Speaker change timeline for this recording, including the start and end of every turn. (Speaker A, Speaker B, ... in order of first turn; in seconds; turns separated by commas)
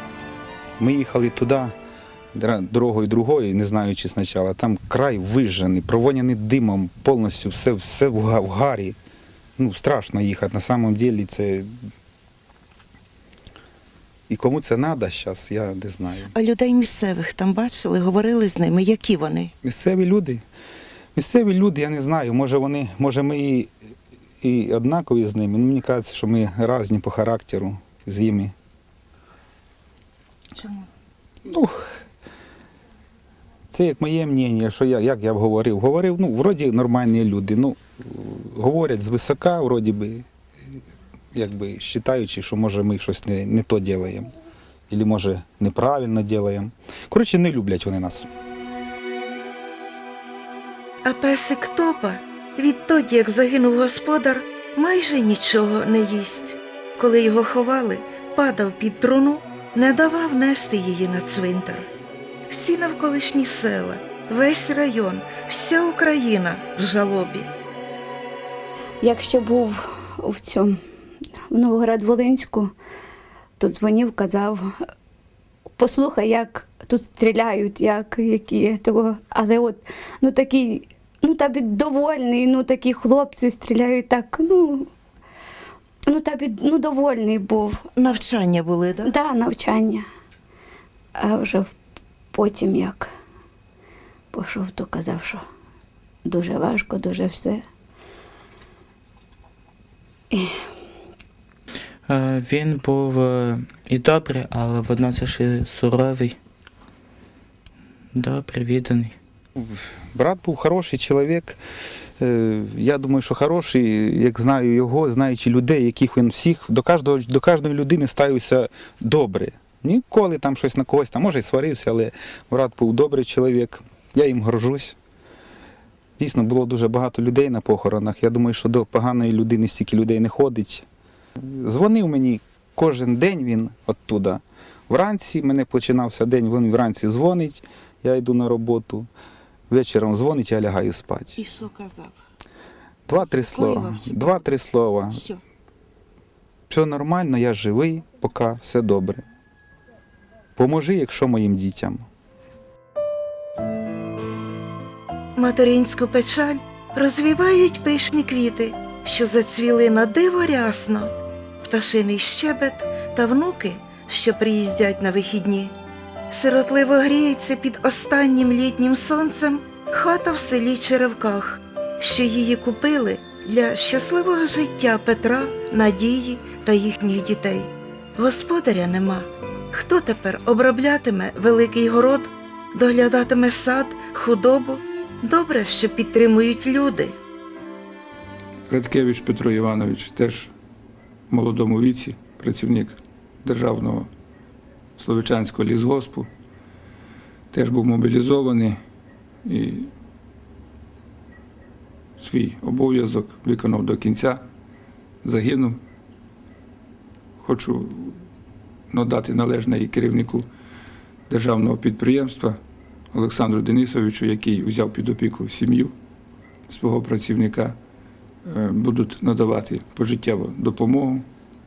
Speaker A: 0.8-1.7, Speaker A: 2.4-9.0, Speaker A: 9.6-11.7, Speaker A: 14.3-16.3, Speaker B: 16.3-19.5, Speaker A: 19.6-20.4, Speaker A: 21.1-23.7, Speaker A: 24.4-28.5, Speaker B: 30.6-30.9, Speaker A: 31.5-31.9, Speaker A: 33.7-40.2, Speaker A: 41.3-44.3, Speaker A: 44.9-48.3, Speaker B: 51.0-61.9, Speaker B: 62.5-67.5, Speaker C: 69.0-70.8, Speaker C: 71.5-72.7, Speaker C: 73.6-74.7, Speaker C: 75.8-84.9, Speaker C: 86.1-87.8, Speaker B: 88.0-89.1, Speaker C: 89.0-90.0, Speaker C: 91.2-91.7, Speaker C: 92.3-93.1, Speaker C: 94.3-95.4, Speaker C: 96.2-97.6, Speaker D: 102.1-106.4, Speaker D: 108.1-109.2, Speaker A: 109.6-111.6, Speaker A: 112.2-125.0, Speaker A: 126.2-130.9, Speaker A: 131.4-139.1, Speaker A: 139.7-141.4, Speaker B: 141.4-142.1, Speaker A: 143.1-145.2, Speaker B: 143.1-144.4, Speaker B: 145.1-145.4, Speaker A: 146.7-149.2, Speaker A: 150.6-152.1, Speaker B: 155.4-161.1, Speaker B: 161.7-165.7, Speaker B: 166.3-187.1, Speaker E: 188.7-190.5, Speaker E: 191.3-194.1, Speaker E: 195.0-196.3, Speaker E: 197.5-198.8, Speaker E: 199.4-199.9, Speaker E: 202.2-204.4, Speaker E: 205.2-205.8, Speaker E: 207.4-208.2, Speaker E: 208.9-210.5, Speaker E: 211.3-212.6, Speaker E: 213.1-215.9, Speaker E: 216.7-217.8, Speaker E: 218.4-221.3